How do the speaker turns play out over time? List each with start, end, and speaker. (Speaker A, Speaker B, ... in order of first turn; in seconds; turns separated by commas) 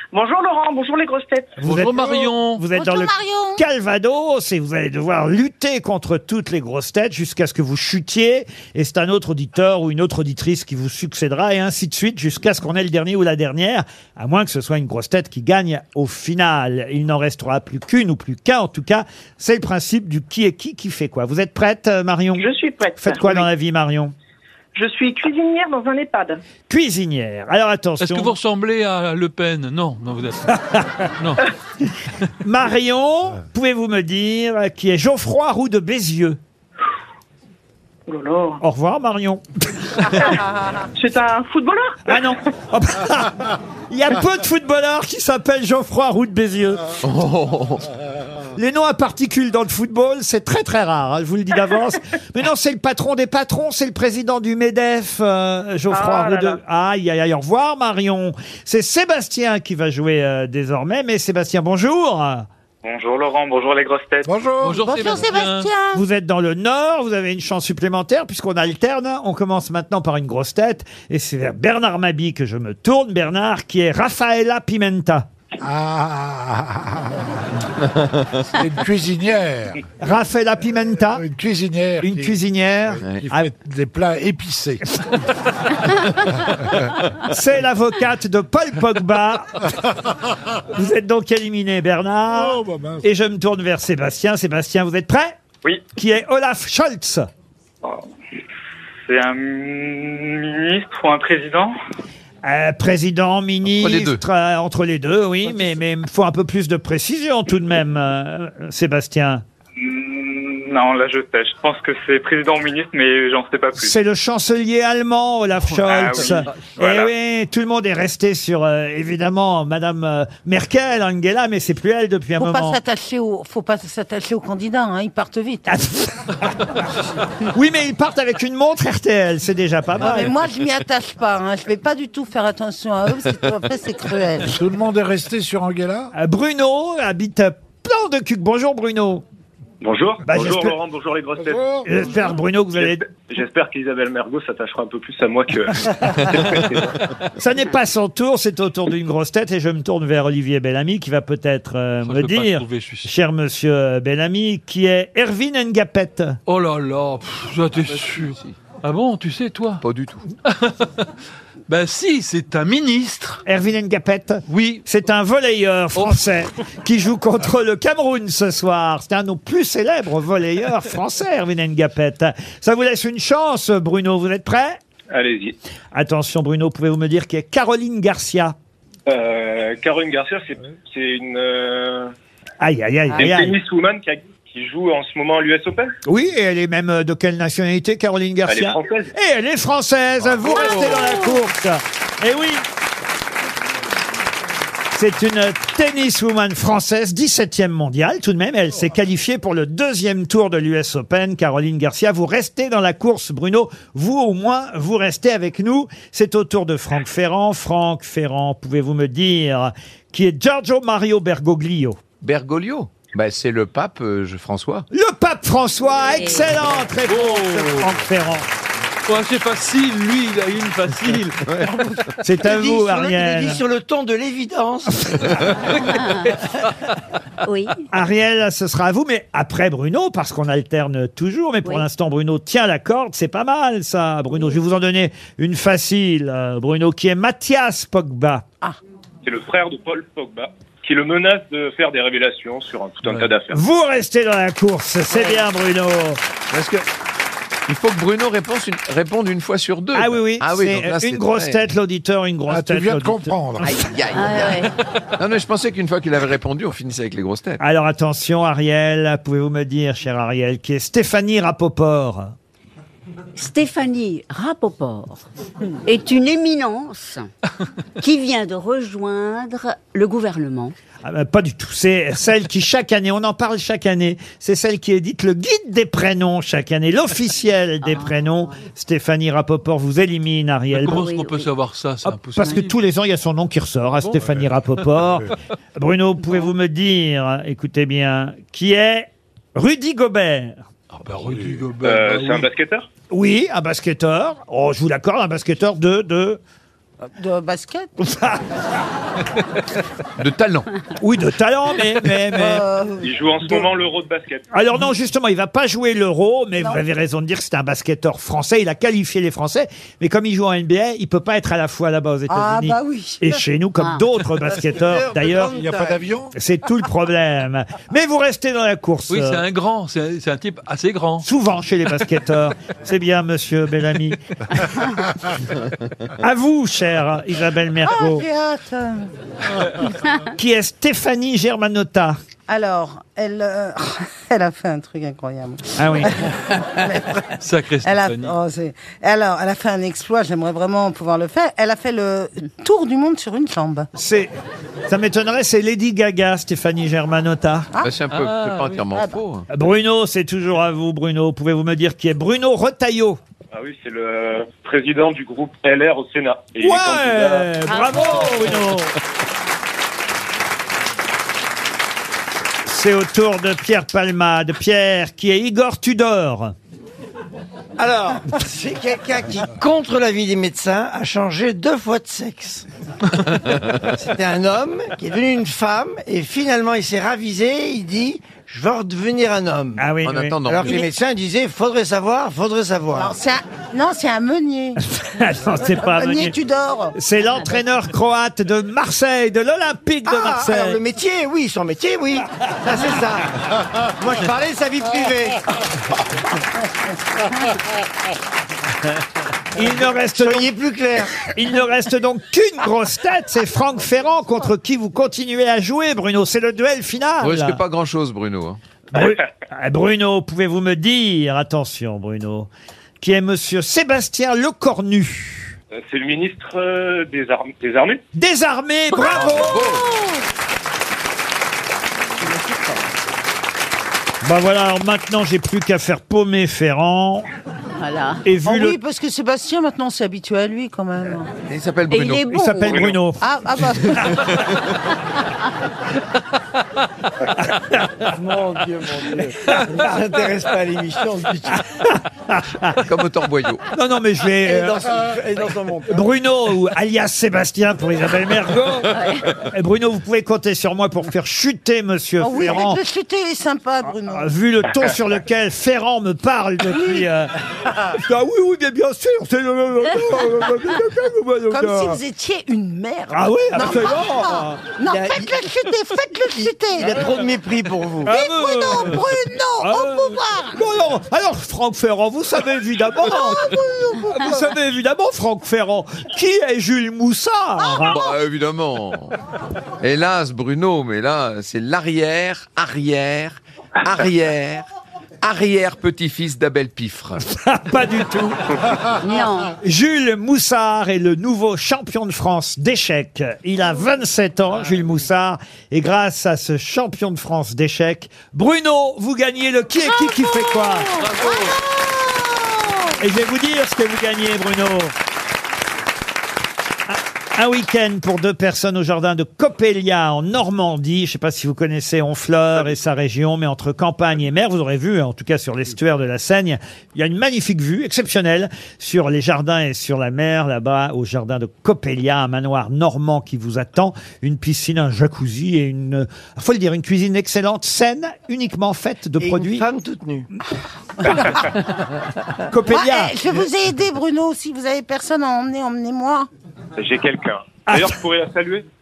Speaker A: 0.1-1.6, Speaker B: 1.6-22.4, Speaker C: 1.7-2.6, Speaker D: 2.8-3.6, Speaker A: 22.4-23.5, Speaker B: 23.0-24.1, Speaker A: 24.7-26.4, Speaker B: 26.7-28.4, Speaker C: 28.0-30.4, Speaker B: 30.5-31.1, Speaker B: 32.4-36.4, Speaker A: 38.1-38.6, Speaker B: 38.6-40.2, Speaker A: 41.0-42.2, Speaker B: 42.1-46.8, Speaker E: 47.0-47.9, Speaker B: 48.6-62.5, Speaker A: 55.9-56.6, Speaker F: 62.9-64.3, Speaker G: 64.2-64.9, Speaker C: 64.6-65.7, Speaker D: 64.8-66.0, Speaker E: 64.9-65.2, Speaker B: 65.9-75.3, Speaker G: 75.6-77.3, Speaker G: 78.5-79.8, Speaker B: 80.0-81.2, Speaker G: 81.2-82.4, Speaker B: 82.0-83.5, Speaker G: 82.9-84.8, Speaker B: 87.2-89.7, Speaker B: 90.7-95.4, Speaker G: 92.3-93.1, Speaker B: 95.9-97.3, Speaker F: 99.1-101.7, Speaker B: 102.4-109.4, Speaker E: 103.7-104.2, Speaker F: 109.8-113.9, Speaker B: 113.8-122.8, Speaker F: 115.9-117.1, Speaker D: 122.4-125.8, Speaker B: 125.7-126.9, Speaker B: 127.4-130.3, Speaker D: 130.0-134.5, Speaker G: 134.5-136.1, Speaker B: 136.2-139.2, Speaker H: 139.8-141.6, Speaker B: 140.3-140.8, Speaker G: 141.4-141.8, Speaker B: 141.8-143.0, Speaker H: 143.2-146.9, Speaker B: 147.4-156.4, Speaker C: 152.0-153.1, Speaker C: 156.5-159.8, Speaker E: 157.8-158.6, Speaker E: 159.8-160.3, Speaker C: 160.4-161.1, Speaker C: 161.7-163.4, Speaker B: 163.5-174.8, Speaker C: 164.5-164.8, Speaker H: 175.2-175.5, Speaker B: 175.9-178.6, Speaker H: 179.1-182.1, Speaker B: 182.6-183.6, Speaker H: 183.2-185.8, Speaker B: 186.1-192.7, Speaker H: 188.5-189.1, Speaker E: 190.5-190.8, Speaker B: 194.9-212.0, Speaker E: 212.2-214.9, Speaker B: 214.9-218.5, Speaker C: 217.1-217.8, Speaker C: 219.1-221.4, Speaker E: 220.9-221.7, Speaker I: 221.7-225.5, Speaker B: 222.2-223.6, Speaker B: 227.9-238.4, Speaker H: 239.3-243.6, Speaker B: 243.5-246.2, Speaker E: 246.5-246.9, Speaker E: 247.7-251.7, Speaker B: 249.9-253.3, Speaker G: 252.5-253.8, Speaker E: 253.6-257.6, Speaker J: 254.1-254.6, Speaker B: 257.6-262.3, Speaker J: 263.4-265.2, Speaker J: 265.9-267.3, Speaker J: 268.0-270.7, Speaker B: 271.0-281.1, Speaker C: 280.7-282.6, Speaker J: 281.0-281.5, Speaker B: 282.1-290.6, Speaker C: 290.9-292.4, Speaker G: 291.2-291.5, Speaker H: 291.8-292.8, Speaker B: 293.1-296.4, Speaker D: 297.0-297.9, Speaker B: 298.0-298.4, Speaker E: 300.2-300.7, Speaker B: 301.0-302.6, Speaker D: 302.3-303.7, Speaker H: 303.1-304.4, Speaker B: 304.5-315.5, Speaker D: 312.3-313.4, Speaker I: 314.5-316.1, Speaker G: 315.5-316.3, Speaker B: 316.3-319.5, Speaker C: 319.1-321.2, Speaker B: 321.2-325.0, Speaker B: 326.1-328.3, Speaker D: 327.9-329.1, Speaker B: 330.2-332.2, Speaker D: 332.5-337.3, Speaker B: 335.8-336.1, Speaker C: 337.4-338.3, Speaker D: 337.8-343.9, Speaker B: 343.9-344.3, Speaker B: 344.9-347.7, Speaker E: 347.8-349.5, Speaker C: 348.1-348.6, Speaker B: 349.5-353.2, Speaker H: 353.6-358.3, Speaker B: 356.6-358.9, Speaker B: 362.6-366.6, Speaker I: 367.8-372.7, Speaker I: 373.8-379.9, Speaker B: 379.8-380.8, Speaker E: 380.0-380.6, Speaker I: 380.5-383.1, Speaker D: 382.9-384.8, Speaker B: 384.9-386.4, Speaker D: 385.6-387.0, Speaker B: 386.9-390.8, Speaker I: 390.1-395.4, Speaker B: 399.6-400.5, Speaker I: 399.6-401.3, Speaker B: 401.3-407.6, Speaker E: 407.2-408.6, Speaker B: 408.9-415.5, Speaker H: 415.9-418.0, Speaker B: 418.1-419.6, Speaker D: 418.9-420.0, Speaker E: 419.1-419.9, Speaker B: 424.2-427.3, Speaker J: 427.9-428.2, Speaker B: 428.2-428.8, Speaker D: 428.4-431.3, Speaker E: 431.5-432.2, Speaker J: 431.9-432.8, Speaker B: 432.3-433.2, Speaker D: 433.2-434.3, Speaker B: 437.5-437.9, Speaker I: 438.2-441.6, Speaker B: 441.8-442.8, Speaker E: 442.9-443.6, Speaker B: 443.7-444.8, Speaker I: 444.4-446.0, Speaker B: 445.9-452.8, Speaker D: 452.2-454.3, Speaker B: 454.1-462.0, Speaker D: 456.7-457.0, Speaker D: 461.5-467.1, Speaker B: 463.1-464.6, Speaker I: 464.9-465.7, Speaker I: 466.2-468.1, Speaker B: 468.1-469.1, Speaker D: 468.1-470.6, Speaker B: 469.6-478.1, Speaker D: 473.2-473.9, Speaker D: 477.6-478.1, Speaker E: 477.9-479.1, Speaker E: 479.8-484.7, Speaker E: 485.2-487.2, Speaker B: 487.2-488.7, Speaker J: 489.1-489.4, Speaker B: 489.6-501.0, Speaker D: 499.8-502.9, Speaker C: 501.1-501.5, Speaker B: 503.0-504.9, Speaker B: 506.9-529.7, Speaker I: 529.2-530.3, Speaker D: 531.0-531.6, Speaker B: 532.5-533.1, Speaker D: 532.7-536.3, Speaker H: 536.8-538.6, Speaker B: 537.7-537.9